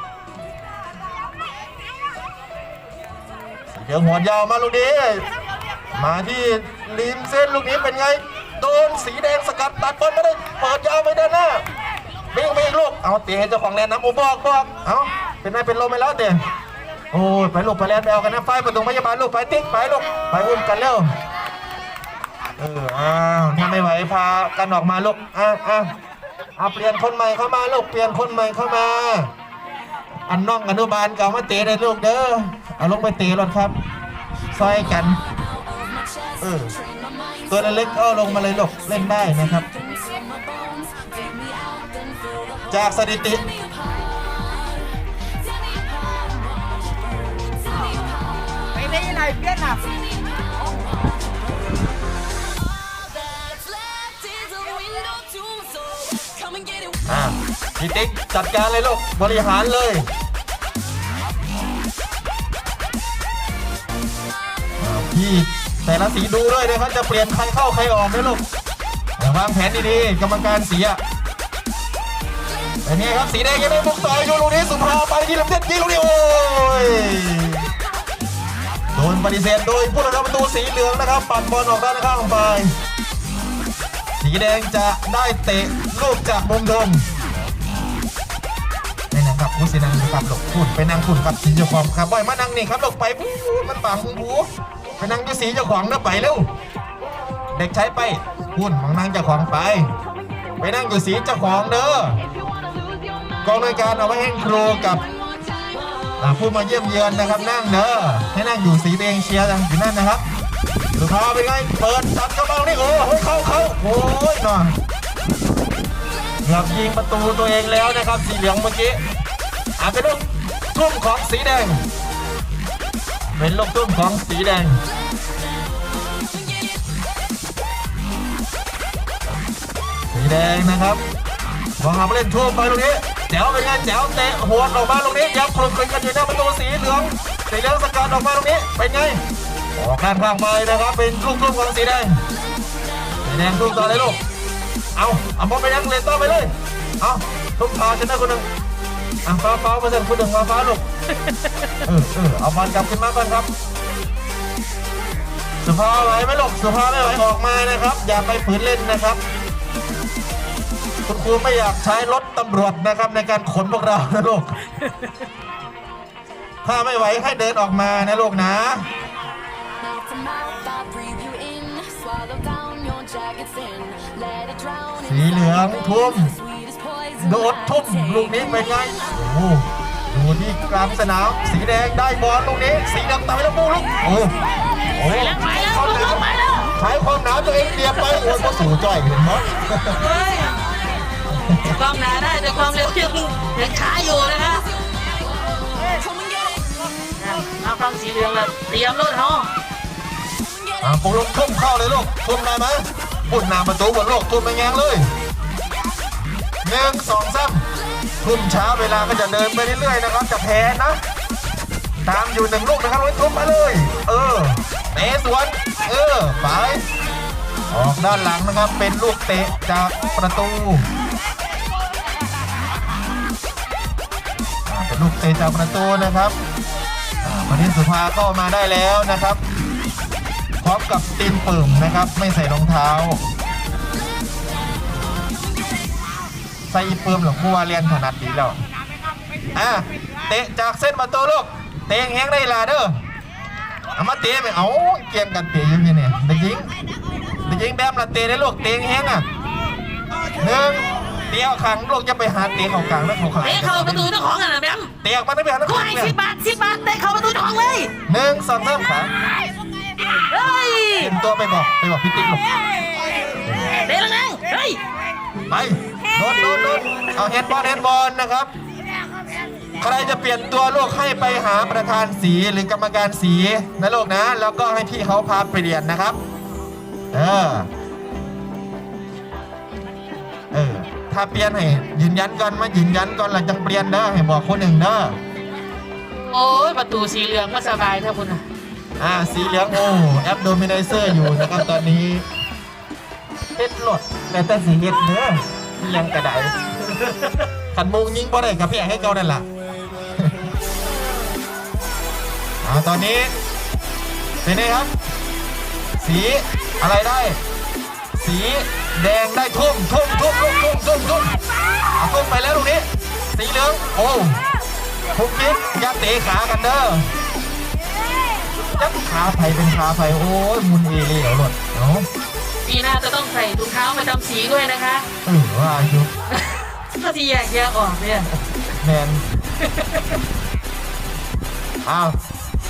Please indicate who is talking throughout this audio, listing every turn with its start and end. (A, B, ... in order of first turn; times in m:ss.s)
0:03.7-0:05.3 A
0:05.9-0:11.6 A
0:12.3-0:16.4 A
0:17.1-0:21.1 A
0:22.6-0:25.9 A
0:26.6-0:29.3 A
0:30.3-0:33.7 A
0:34.5-0:35.2 A
0:34.6-0:51.8 B
0:36.4-0:36.7 A
0:37.5-0:39.7 A
0:42.7-0:43.4 A
0:52.4-0:57.3 B
0:57.1-1:00.1 A
1:04.8-1:08.4 A
1:09.2-1:11.0 A
1:12.8-1:17.7 A
1:18.9-1:22.7 A
1:24.2-1:27.0 A
1:29.1-1:34.5 A
1:35.0-1:36.5 A
1:37.5-1:39.9 A
1:40.6-1:42.2 A
1:42.4-1:46.1 B
1:43.4-1:45.0 A
1:46.2-1:50.2 A
1:51.0-1:54.8 A
1:56.4-1:59.0 A
1:59.8-2:01.8 A
2:03.4-2:04.8 A
2:06.3-2:06.8 B
2:10.1-2:11.0 A
2:11.8-2:19.2 A
2:19.8-2:22.2 A
2:23.2-2:24.2 A
2:25.0-2:28.5 A
2:29.2-2:30.8 A
2:31.8-2:33.5 A
2:35.6-2:39.2 A
2:41.1-2:44.6 A
2:46.6-2:48.9 A
2:49.8-2:59.3 B
2:55.0-2:56.3 A
2:57.2-3:04.3 A
3:05.0-3:10.0 A
3:05.0-3:06.7 C
3:09.9-3:10.6 C
3:11.3-3:11.8 A
3:11.6-3:14.6 C
3:15.0-3:16.8 B
3:17.2-3:19.5 C
3:20.8-3:25.1 A
3:26.6-3:27.6 A
3:28.2-3:31.0 A
3:32.1-3:36.8 A
3:37.7-3:40.8 A
3:44.7-3:46.4 A
3:47.2-3:49.4 A
3:50.6-3:53.2 A
3:56.7-3:58.6 A
3:59.6-4:03.0 A
4:04.0-4:06.7 A
4:07.5-4:09.3 A
4:10.4-4:14.1 A
4:13.4-4:14.9 C
4:15.0-4:16.2 A
4:15.7-4:17.9 C
4:18.1-4:19.1 A
4:20.3-4:21.1 C
4:21.0-4:22.4 A
4:23.8-4:24.8 C
4:25.5-4:28.5 A
4:29.8-4:36.2 A
4:37.1-4:37.7 A
4:40.5-4:45.2 A
4:46.1-4:48.4 C
4:49.0-4:52.3 A
4:51.1-4:51.6 C
4:53.6-4:56.6 A
4:56.9-4:57.4 C
4:57.7-4:59.4 A
5:02.6-5:03.3 A
5:04.4-5:04.9 A
5:06.0-5:07.4 A
5:08.2-5:11.4 A
5:12.0-5:14.4 A
5:15.2-5:17.1 A
5:18.7-5:22.1 A
5:22.6-5:25.1 C
5:25.2-5:26.1 A
5:26.3-5:28.3 C
5:28.8-5:29.3 A
5:29.6-5:30.1 C
5:31.8-5:32.2 A